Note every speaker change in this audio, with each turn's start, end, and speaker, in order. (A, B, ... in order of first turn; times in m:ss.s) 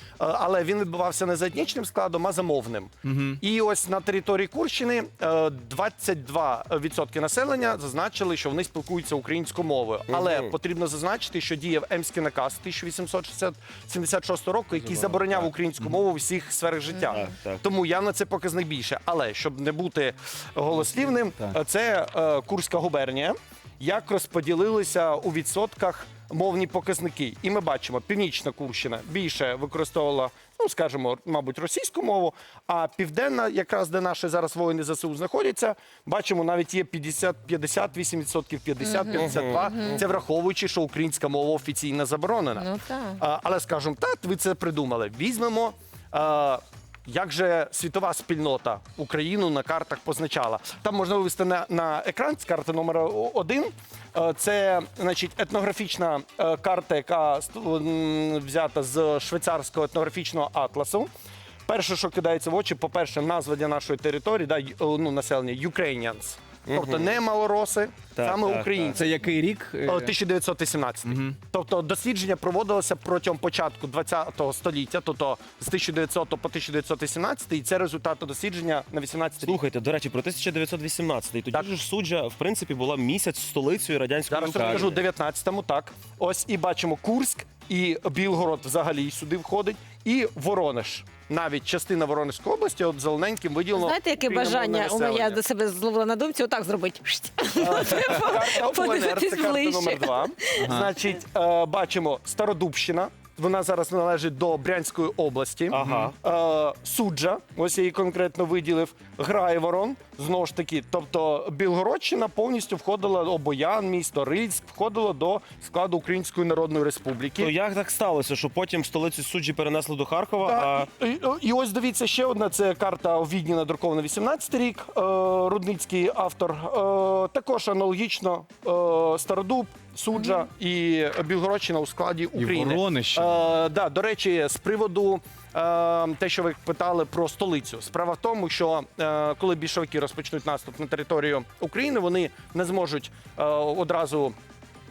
0:00.2-0:42.7 A
0:03.0-0:03.4 B
0:10.1-0:10.5 C
0:14.7-0:15.5 C
0:17.1-0:17.6 C
0:38.9-0:40.0 D
0:39.1-0:40.0 C
0:42.6-0:43.2 D
0:43.2-1:01.1 A
1:01.7-1:09.1 A
1:06.7-1:07.2 C
1:08.1-1:09.0 C
1:08.9-1:10.1 B
1:09.8-1:19.6 A
1:11.1-1:11.4 B
1:19.4-1:25.0 C
1:24.3-1:35.4 A
1:24.6-1:24.9 B
1:33.8-1:40.7 D
1:37.5-1:57.5 A
1:40.6-1:40.9 B
1:45.7-1:46.1 C
1:45.8-1:46.1 B
1:57.4-2:00.9 C
2:00.4-2:24.3 A
2:12.4-2:13.4 B